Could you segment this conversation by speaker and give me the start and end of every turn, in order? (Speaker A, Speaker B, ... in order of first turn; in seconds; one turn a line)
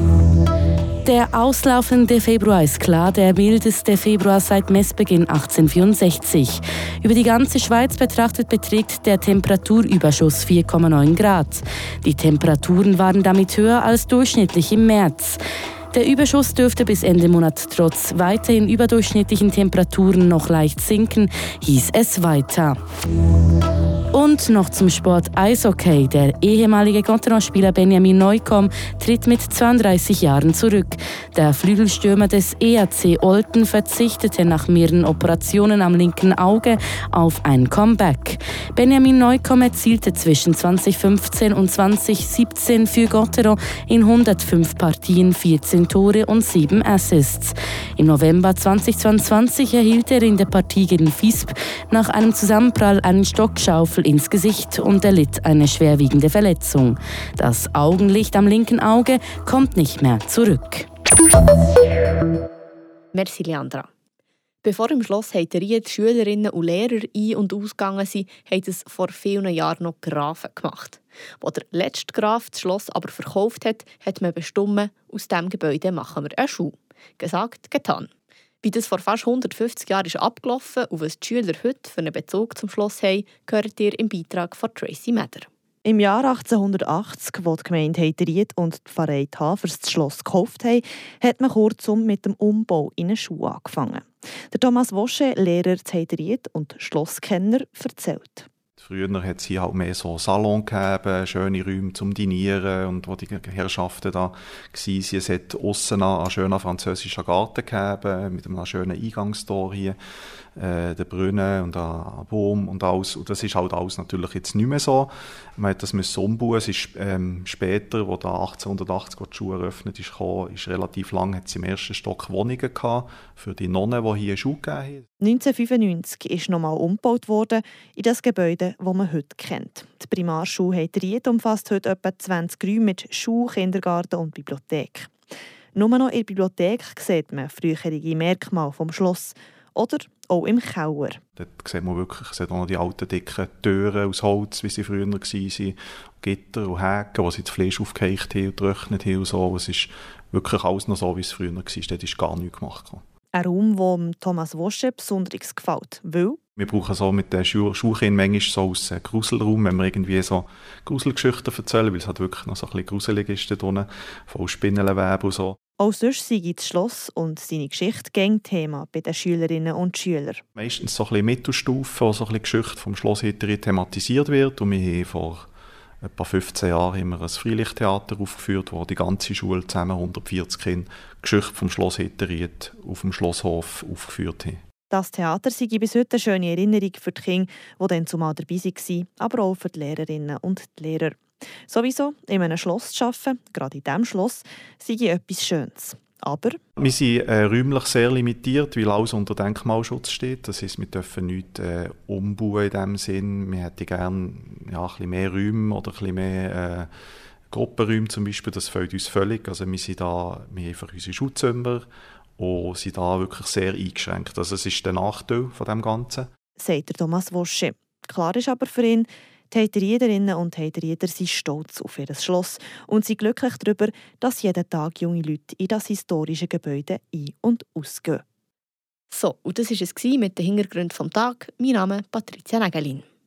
Speaker A: 1.0-15.4
Speaker A: 15.9-22.8
Speaker A: 24.1-60.9
Speaker B: 63.1-63.9
Speaker B: 64.6-78.1
Speaker B: 78.6-85.5
Speaker C: 85.8-98.5
Speaker D: 98.8-110.0
Speaker D: 110.6-125.0
Speaker C: 125.2-135.1
Speaker C: 135.8-141.2
Speaker D: 141.4-153.0
Speaker C: 153.3-156.4
Speaker D: 156.6-165.6
Speaker C: 165.8-170.4
Speaker D: 170.6-175.5
Speaker D: 176.0-184.6
Speaker C: 184.9-196.6
Speaker D: 196.8-206.9
Speaker D: 207.5-211.9
Speaker D: 212.4-216.3
Speaker C: 216.6-228.2
Speaker B: 229.1-233.0